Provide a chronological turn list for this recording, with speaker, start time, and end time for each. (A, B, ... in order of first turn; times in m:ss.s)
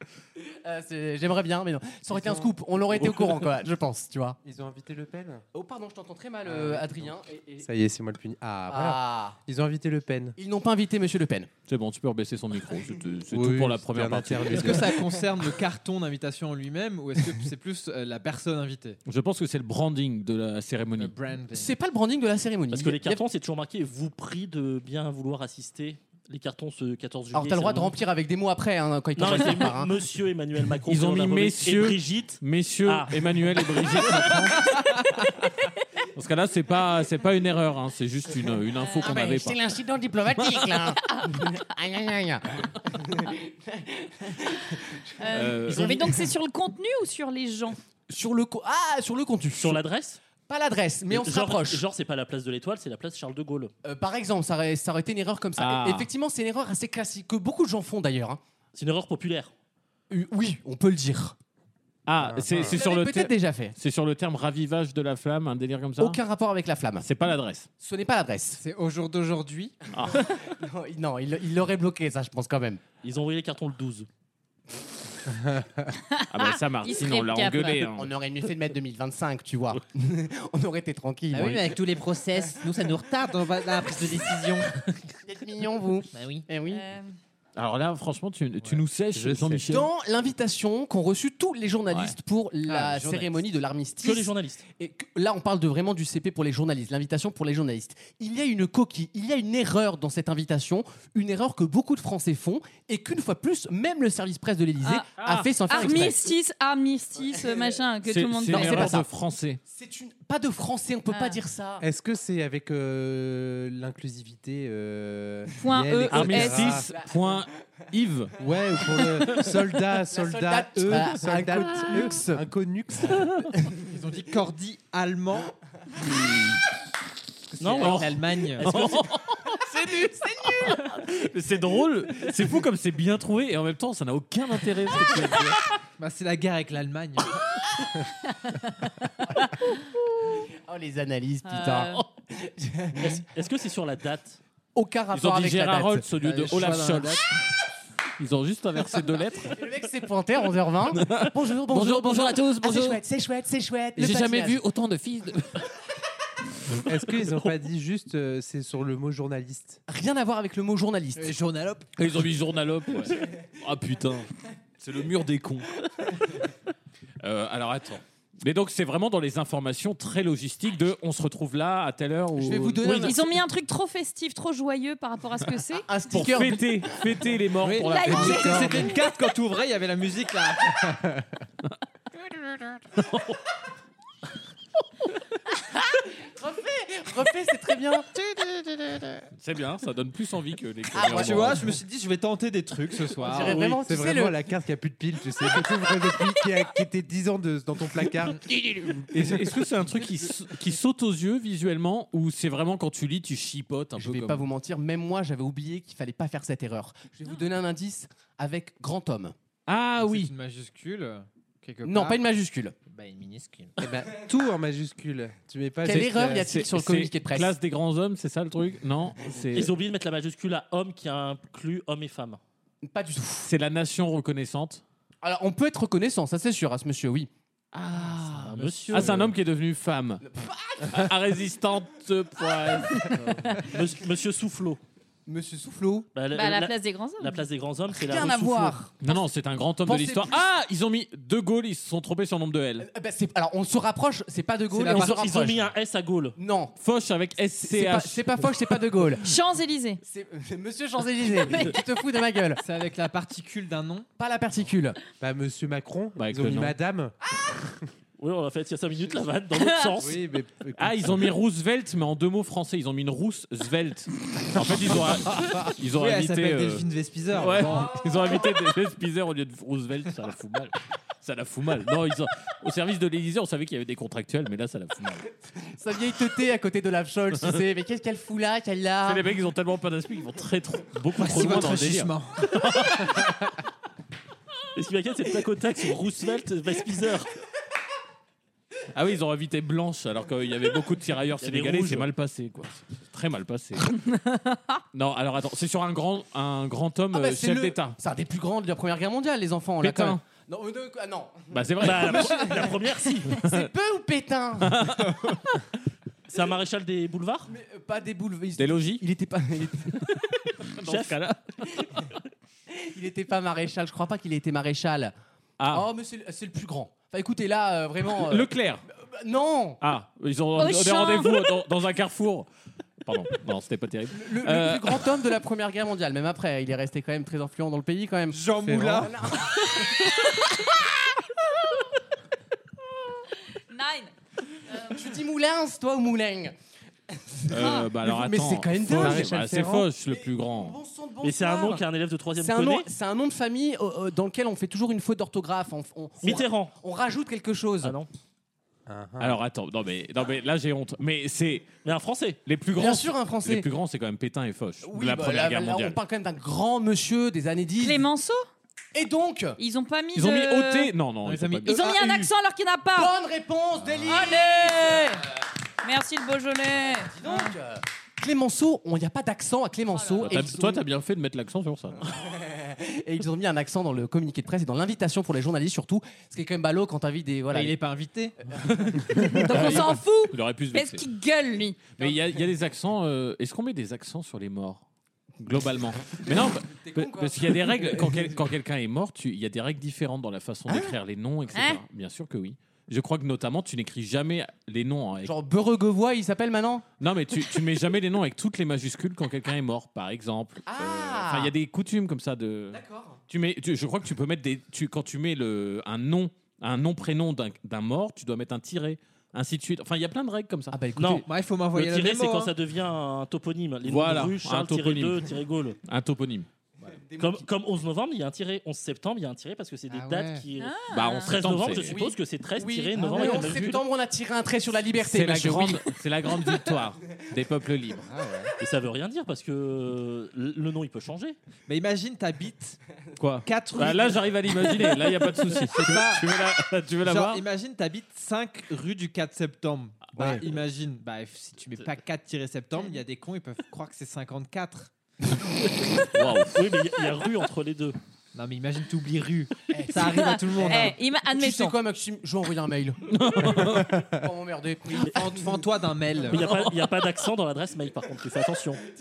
0:00.6-0:04.4 A
0:02.1-0:02.5 B
0:04.4-0:05.4 B
0:05.5-0:07.7 A
0:06.4-0:07.1 B
0:07.6-0:10.4 B
0:08.7-0:09.4 A
0:10.4-0:11.5 A
0:11.7-0:14.9 C
0:13.3-0:14.9 B
0:14.4-0:19.0 D
0:19.0-0:21.1 C
0:21.0-0:21.7 D
0:21.5-0:23.2 A
0:22.7-0:28.0 E
0:27.3-0:29.9 A
0:29.2-0:34.2 E
0:30.8-0:34.8 C
0:36.1-0:39.6 C
0:38.8-0:39.2 F
0:39.0-0:45.0 A
0:45.2-0:47.8 F
0:45.3-0:46.0 C
0:45.7-0:46.0 A
0:48.1-0:49.8 A
0:49.6-0:50.2 E
0:50.5-0:51.8 A
0:51.1-0:53.7 E
0:53.8-0:58.4 A
0:55.6-0:56.1 C
0:58.7-0:59.5 E
1:00.1-1:01.4 A
1:02.0-1:06.2 C
1:02.2-1:02.8 B
1:02.7-1:03.7 A
1:06.0-1:07.1 A
1:07.0-1:07.7 C
1:07.8-1:08.6 A
1:08.6-1:09.7 D
1:09.9-1:10.5 C
1:10.0-1:12.8 A
1:13.0-1:14.1 E
1:16.2-1:17.8 F
1:16.3-1:18.1 C
1:17.9-1:21.7 A
1:21.3-1:24.7 G
1:23.4-1:24.1 D
1:25.2-1:26.8 A
1:26.1-1:26.4 G
1:26.7-1:27.1 F
1:27.6-1:29.9 C
1:29.1-1:29.7 B
1:29.7-1:46.3 A
1:31.9-1:32.1 C
1:32.6-1:33.4 D
1:34.0-1:34.6 E
1:44.8-1:45.1 F
1:45.2-1:46.1 C
1:45.6-1:49.0 F
1:48.0-1:49.6 C
1:48.5-1:49.0 A
1:49.7-1:51.8 A
1:51.1-1:51.4 F
1:51.8-1:56.9 B
1:55.5-1:56.8 F
1:56.1-1:58.4 C
1:58.4-2:03.3 B
2:00.1-2:02.4 A
2:03.8-2:05.5 D
2:06.0-2:06.6 C
2:07.6-2:08.8 D
2:07.6-2:09.0 E
2:07.7-2:15.7 C
2:10.1-2:10.8 A
2:16.0-2:17.4 D
2:20.5-2:23.2 A
2:21.4-2:22.0 F
2:23.0-2:24.4 E
2:24.7-2:26.0 A
2:25.1-2:27.3 C
2:26.2-2:27.3 D
2:28.2-2:29.6 C
2:29.5-2:34.6 A
2:31.0-2:33.0 C
2:34.0-2:35.6 C
2:36.8-2:39.8 B
2:39.9-2:41.3 A
2:41.2-2:41.9 D
2:42.0-2:45.8 C
2:47.2-2:53.2 C
2:52.4-2:53.3 A
2:52.9-2:55.9 F
2:55.8-2:57.0 A
2:56.1-2:58.8 C
2:57.6-3:01.1 D
2:57.8-2:59.0 F
3:03.0-3:03.4 C
3:06.2-3:08.1 A
3:09.4-3:11.8 C
3:10.9-3:11.6 A
3:11.1-3:13.7 D
3:13.2-3:14.4 A
3:13.4-3:13.8 E
3:13.8-3:18.4 B
3:18.5-3:24.4 C
3:24.0-3:29.3 A
3:29.7-3:30.3 C
3:30.0-3:32.2 D
3:31.8-3:32.7 A
3:32.9-3:33.7 D
3:33.8-3:36.5 B
3:35.8-3:37.5 A
3:35.9-3:39.7 C
3:39.5-3:42.4 E
3:42.8-3:43.5 A
3:43.4-3:44.8 C
3:45.2-3:47.3 A
3:47.7-3:50.2 C
3:48.3-3:49.2 E
3:48.9-3:49.2 D
3:50.2-3:51.1 A
3:50.8-3:53.2 C
3:53.6-3:54.8 E
3:55.3-3:56.1 A
3:56.1-3:58.8 E
3:56.3-3:57.4 F
3:57.9-3:58.9 A
3:59.0-4:02.9 C
3:59.8-4:00.4 A
4:02.8-4:05.6 A
4:04.7-4:05.2 D
4:04.9-4:06.4 E
4:06.4-4:06.7 A
4:06.8-4:08.4 C
4:07.6-4:09.3 A
4:09.2-4:10.0 F
4:10.0-4:12.6 A
4:12.6-4:14.1 D
4:14.2-4:15.0 A
4:15.2-4:17.1 B
4:16.2-4:16.8 C
4:18.2-4:20.2 E
4:19.5-4:19.9 F
4:20.0-4:21.3 B
4:20.8-4:35.3 C
4:25.0-4:28.1 D
4:35.7-4:39.2 A
4:39.0-4:43.3 C
4:41.1-4:42.5 D
4:44.7-4:47.3 E
4:48.9-4:54.0 C
4:51.4-4:52.1 E
4:54.3-4:54.8 F
4:54.9-4:58.0 C
4:57.1-5:04.9 A
4:59.8-5:00.2 C
5:01.5-5:02.5 C
5:01.8-5:03.4 E
5:03.4-5:03.7 C
5:04.6-5:05.5 C
5:06.3-5:07.5 E
5:07.5-5:10.1 A
5:08.6-5:09.0 C
5:10.6-5:11.4 C
5:10.8-5:11.1 E
5:12.7-5:15.1 A
5:15.6-5:15.9 C
5:15.7-5:19.8 A
5:18.1-5:18.8 C
5:19.8-5:22.5 C
5:20.6-5:21.5 F
5:23.0-5:25.1 C
5:24.1-5:30.1 A
5:28.3-5:29.1 D
5:28.6-5:29.1 B
5:33.7-5:34.1 F
5:34.9-5:36.5 A
5:37.1-5:39.4 A
5:37.5-5:40.8 C
5:37.6-5:37.9 F
5:38.9-5:39.9 B
5:40.1-5:41.8 A
5:41.2-5:42.9 E
5:42.4-5:47.9 A
5:46.2-5:46.7 E
5:47.8-5:48.1 E
5:48.9-5:49.4 B
5:49.2-5:51.7 C
5:51.8-5:52.4 E
5:52.4-5:56.0 C
5:52.8-5:53.7 A
5:54.8-5:58.0 A
5:57.8-5:58.5 F
5:58.9-5:59.6 A
5:59.6-6:00.9 F
6:00.1-6:01.8 C
6:01.2-6:02.3 D
6:01.6-6:03.1 F
6:02.9-6:05.0 A
6:04.0-6:05.2 F
6:05.8-6:07.5 F
6:07.1-6:10.8 A
6:09.9-6:10.4 F
6:10.2-6:12.1 C
6:12.2-6:17.8 A
6:17.5-6:18.4 D
6:18.4-6:19.4 A
6:19.1-6:21.9 F
6:19.4-6:21.0 C
6:21.9-6:24.8 C
6:25.4-6:35.3 C
6:26.2-6:28.3 A
6:30.7-6:30.9 A
6:31.5-6:31.8 F
6:35.2-6:36.8 A
6:37.0-6:50.9 C
6:40.6-6:41.5 A
6:42.7-6:43.2 A
6:50.7-6:51.3 A
6:51.0-6:55.8 E
6:51.2-6:52.5 D
6:53.8-6:55.3 C
6:55.8-6:56.5 C
6:56.9-6:57.4 A
6:57.2-7:03.8 E
6:59.9-7:00.4 D
7:00.6-7:01.4 F
7:00.9-7:02.0 C
7:01.9-7:05.9 A
7:04.9-7:08.1 C
7:08.1-7:08.5 D
7:08.6-7:11.4 E
7:11.7-7:12.8 D
7:13.2-7:17.4 C
7:13.4-7:16.4 D
7:17.0-7:24.9 D
7:20.0-7:20.5 C
7:26.1-7:26.6 C
7:26.3-7:28.0 E
7:28.3-7:31.0 D
7:29.7-7:35.6 A
7:30.1-7:31.8 F
7:33.1-7:34.0 C
7:35.1-7:36.4 D
7:36.3-7:38.8 E
7:36.4-7:36.8 C